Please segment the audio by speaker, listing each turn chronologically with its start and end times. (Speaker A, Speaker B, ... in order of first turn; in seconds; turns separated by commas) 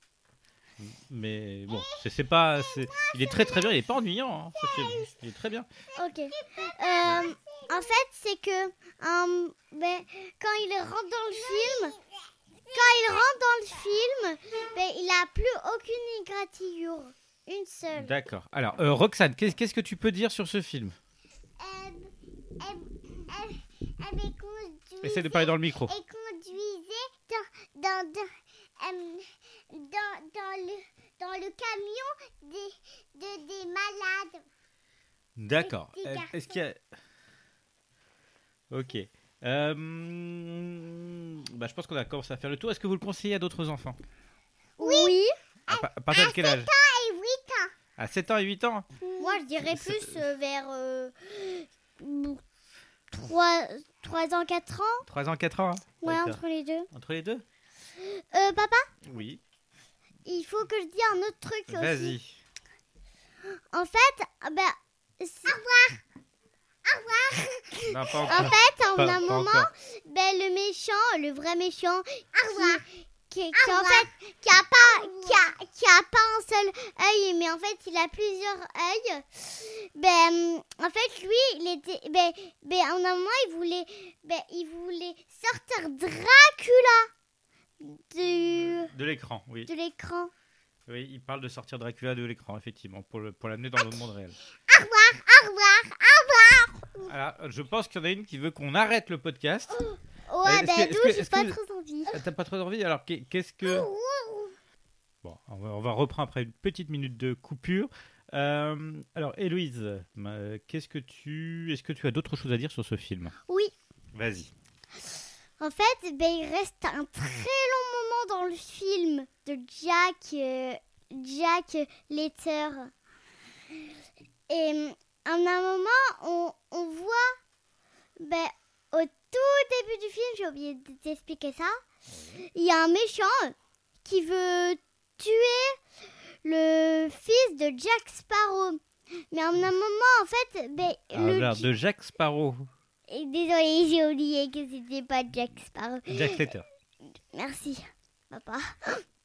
Speaker A: 0.8-5.7, Speaker B: 2.8-3.7, Speaker B: 4.7-5.1, Speaker C: 5.9-12.0, Speaker B: 6.4-7.9, Speaker B: 11.5-12.1, Speaker B: 12.7-13.2, Speaker C: 12.7-18.2, Speaker A: 18.0-21.0, Speaker B: 21.6-28.3, Speaker A: 25.0-25.9, Speaker B: 28.8-34.4, Speaker A: 35.4-36.8, Speaker B: 35.6-36.6, Speaker A: 38.7-44.0, Speaker C: 44.8-45.3, Speaker B: 44.8-45.2, Speaker A: 45.7-46.7, Speaker B: 45.7-47.7, Speaker A: 48.0-48.9, Speaker B: 49.0-49.4, Speaker C: 49.2-52.4, Speaker A: 49.6-50.2, Speaker C: 53.1-55.1, Speaker A: 55.1-56.4, Speaker C: 56.0-56.9, Speaker A: 56.9-57.4, Speaker C: 58.0-58.9, Speaker A: 59.0-59.4, Speaker C: 60.2-62.2, Speaker A: 61.7-62.4, Speaker C: 63.7-65.6, Speaker B: 65.5-66.0, Speaker B: 66.8-68.5, Speaker A: 67.9-69.7, Speaker C: 68.1-87.1, Speaker B: 72.4-72.8, Speaker B: 73.5-75.5, Speaker C: 87.8-88.9, Speaker A: 88.6-89.7, Speaker C: 89.7-90.3, Speaker A: 90.9-94.4, Speaker B: 94.7-97.0, Speaker A: 97.0-99.9, Speaker C: 100.3-102.2, Speaker A: 100.4-101.6, Speaker A: 102.1-103.9, Speaker C: 103.6-104.5, Speaker A: 105.2-113.3, Speaker A: 114.1-114.5, Speaker C: 115.6-122.9, Speaker C: 124.5-127.4, Speaker C: 128.2-131.8, Speaker A: 132.1-132.4, Speaker C: 132.5-135.8, Speaker C: 136.4-141.7, Speaker A: 141.1-142.7, Speaker C: 143.1-146.4, Speaker A: 146.1-146.7, Speaker C: 147.3-149.0